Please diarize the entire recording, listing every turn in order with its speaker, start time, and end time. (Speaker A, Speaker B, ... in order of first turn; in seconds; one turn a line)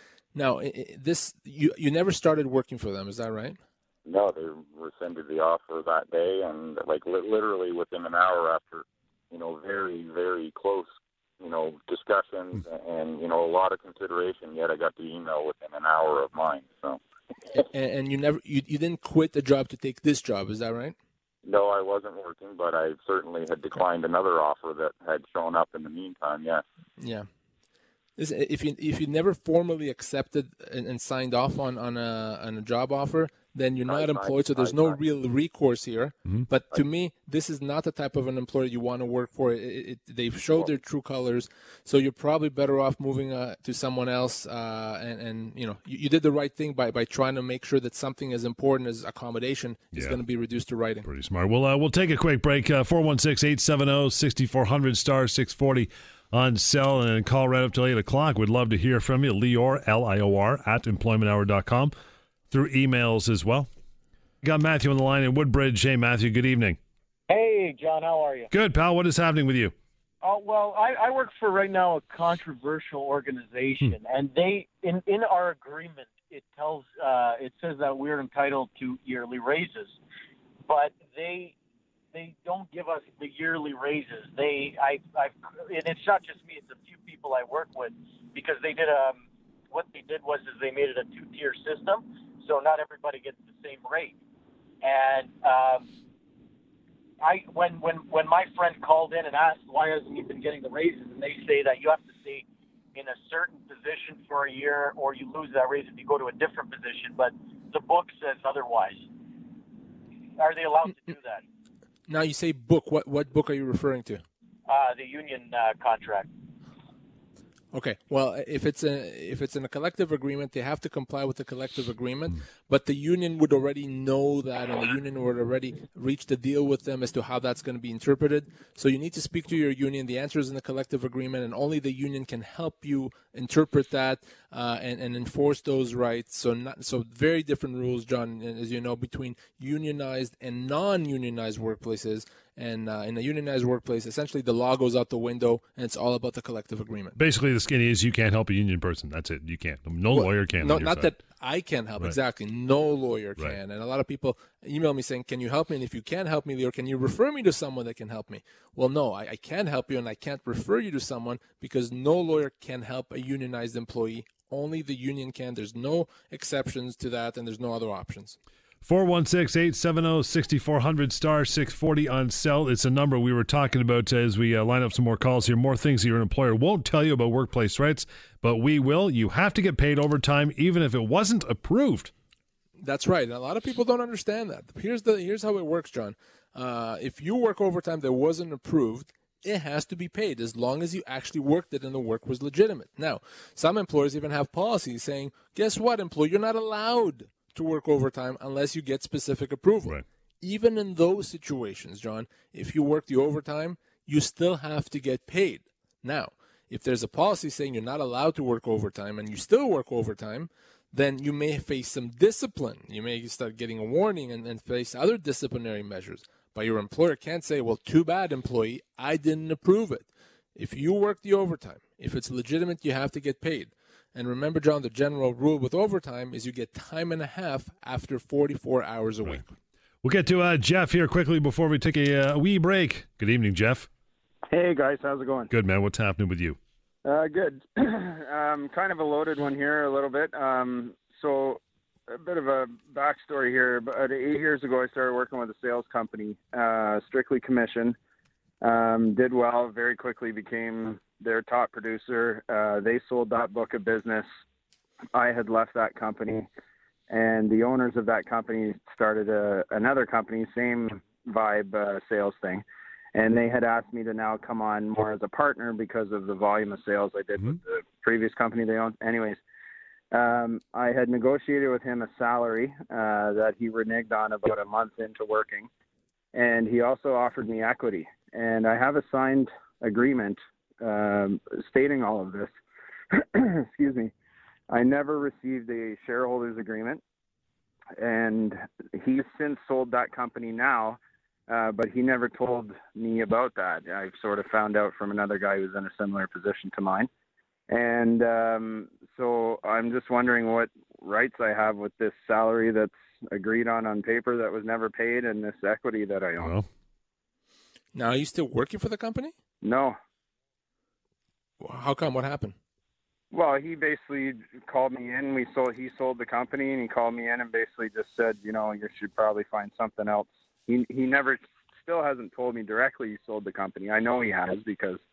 Speaker A: 0.3-3.6
Speaker B: 4.1-10.9
Speaker B: 11.4-17.0
Speaker A: 17.7-20.9
Speaker B: 21.4-26.6
Speaker A: 27.0-27.3
Speaker A: 28.2-51.1
Speaker B: 33.9-35.0
Speaker C: 49.9-50.2
Speaker C: 51.0-61.9
Speaker C: 62.5-63.7
Speaker C: 64.4-66.8
Speaker D: 67.3-68.5
Speaker C: 68.5-69.7
Speaker D: 70.2-80.0
Speaker D: 80.7-81.5
Speaker D: 82.1-94.2
Speaker D: 94.8-95.9
Speaker D: 97.2-109.1
Speaker D: 110.4-111.4
Speaker A: 112.1-114.2
Speaker D: 114.7-116.3
Speaker A: 117.7-147.2
Speaker C: 147.2-151.1
Speaker A: 150.1-168.4
Speaker C: 168.8-182.1
Speaker A: 182.8-229.5
Speaker C: 230.0-233.9
Speaker E: 234.5-235.5
Speaker C: 235.5-236.6
Speaker E: 237.1-248.0
Speaker E: 248.6-254.3
Speaker E: 255.1-256.5
Speaker E: 257.1-262.6
Speaker E: 263.1-269.4
Speaker E: 270.1-275.7
Speaker E: 276.3-282.5
Speaker E: 283.1-284.1
Speaker E: 284.7-287.0
Speaker E: 288.0-297.1
Speaker E: 297.7-306.6
Speaker C: 306.4-306.7
Speaker A: 307.9-309.3
Speaker E: 309.6-310.0
Speaker A: 311.6-312.6
Speaker E: 313.3-325.0